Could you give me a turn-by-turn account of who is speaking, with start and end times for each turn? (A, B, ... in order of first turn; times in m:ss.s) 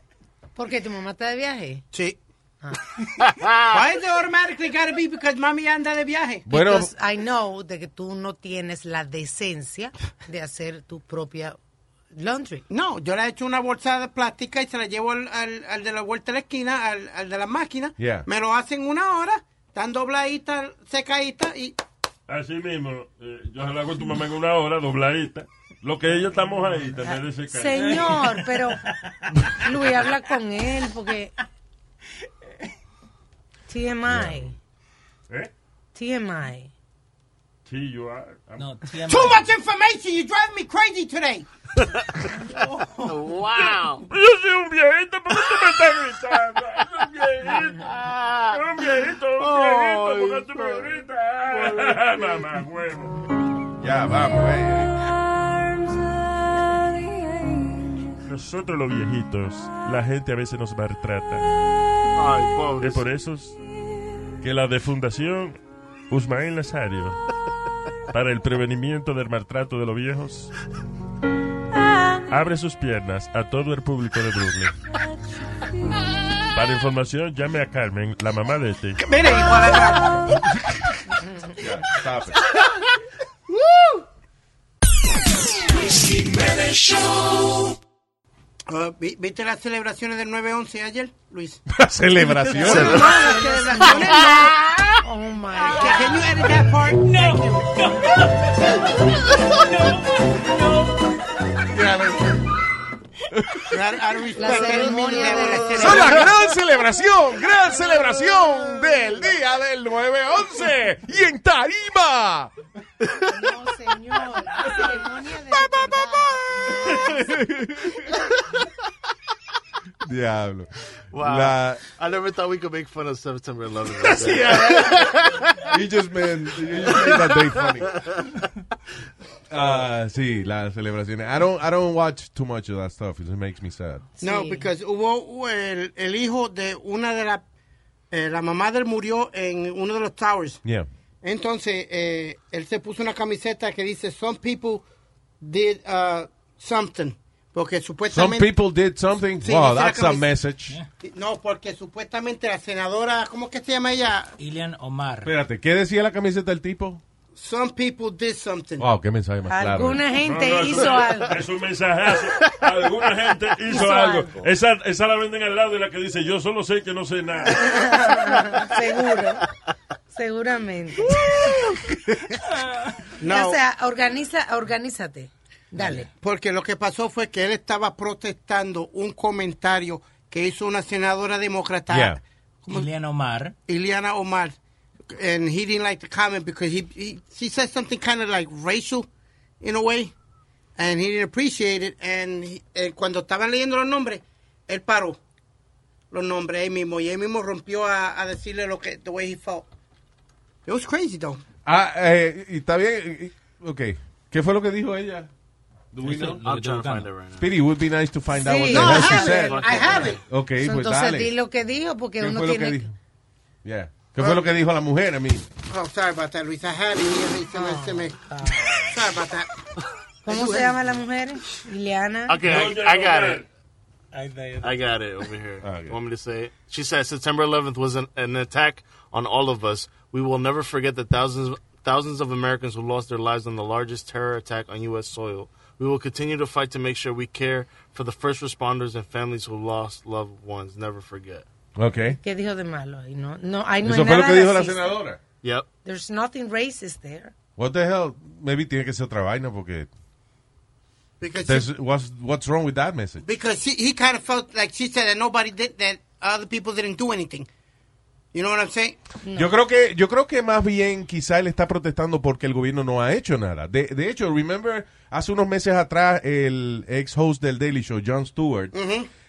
0:00.6-0:01.8 A
0:01.9-0:02.2 B
0:03.2-0:03.8 C
0:03.7-0:06.4 B
0:06.5-0:06.9 D
0:06.5-0:11.6 A
0:12.1-0:12.6 A
0:12.7-0:21.8 B
0:18.0-0:18.2 D
0:22.3-0:28.3 E
0:27.1-0:28.8 A
0:27.8-0:29.6 F
0:29.6-0:31.3 A
0:33.7-0:34.5 A
0:34.1-0:34.5 D
0:35.9-0:36.7 A
0:37.6-0:38.7 E
0:38.6-0:39.5 F
0:39.1-0:41.5 B
0:42.5-0:43.3 F
0:43.0-0:44.0 C
0:43.6-0:48.0 E
0:47.8-0:48.6 C
0:48.5-0:53.2 E
0:49.4-0:50.9 C
0:51.5-0:52.0 C
0:53.8-0:54.9 D
0:58.2-1:01.4 E
1:02.1-1:03.0 C
1:02.8-1:03.6 E
1:04.4-1:05.6 E
1:06.1-1:07.2 E
1:08.1-1:10.5 E
1:12.3-1:14.8 E
1:16.5-1:19.0 E
1:19.0-1:20.4 B
1:21.5-1:22.5 D
1:23.5-1:24.0 B
1:28.7-1:31.6 B
1:31.7-1:33.1 D
1:32.5-1:34.7 B
1:32.6-1:33.1 C
1:32.7-1:36.2 A
1:35.7-1:37.7 B
1:37.0-1:41.1 F
1:41.7-1:42.3 D
1:43.3-1:43.7 D
1:43.7-1:46.3 B
1:44.4-1:46.4 A
1:45.7-1:52.5 D
1:53.2-1:57.3 A
1:56.8-1:58.2 D
2:00.0-2:01.8 D
2:01.1-2:05.7 C
2:04.0-2:08.0 D
2:06.9-2:07.4 C
2:09.5-2:14.1 D
2:14.2-2:14.7 A
2:14.2-2:17.4 B
2:18.1-2:20.6 B
2:21.2-2:24.8 B
2:25.4-2:28.5 B
2:28.1-2:30.8 D
2:29.4-2:30.3 B
2:31.0-2:34.3 B
2:34.4-2:35.3 F
2:35.2-2:37.0 D
2:37.3-2:38.9 B
2:38.8-2:40.1 D
2:39.5-2:41.4 A
2:40.2-2:47.9 E
2:43.7-2:44.4 A
2:47.5-2:49.4 A
2:50.1-2:51.3 A
2:51.9-2:52.2 D
2:52.5-2:52.9 F
2:53.2-2:53.6 B
2:53.2-2:56.1 A
2:56.2-3:02.9 B
3:01.9-3:02.2 D
3:02.7-3:03.5 F
3:03.6-3:04.6 B
3:05.1-3:09.1 B
3:09.6-3:10.1 B
3:10.8-3:15.2 B
3:16.1-3:19.6 B
3:20.6-3:21.4 B
3:21.6-3:25.3 D
3:25.9-3:26.4 D
3:26.0-3:27.1 F
3:26.4-3:27.5 C
3:27.4-3:31.3 D
3:28.3-3:29.6 A
3:28.7-3:30.2 B
3:28.8-3:30.2 C
3:30.6-3:32.8 A
3:32.2-3:32.9 D
3:33.6-3:35.4 D
3:34.2-3:34.4 B
3:35.7-3:39.5 B
3:37.5-3:38.9 A
3:40.2-3:42.4 A
3:40.2-3:40.8 B
3:42.3-3:43.4 C
3:42.4-3:43.4 E
3:44.1-3:44.8 F
3:44.6-4:01.4 C
3:45.6-3:46.0 D
4:01.8-4:02.2 D
4:02.1-4:05.0 A
4:03.8-4:05.2 D
4:05.8-4:07.3 A
4:07.6-4:09.9 D
4:11.2-4:11.7 B
4:11.4-4:13.2 D
4:13.2-4:17.5 B
4:18.3-4:19.0 B
4:19.2-4:19.5 A
4:19.3-4:28.7 D
4:28.7-4:29.1 B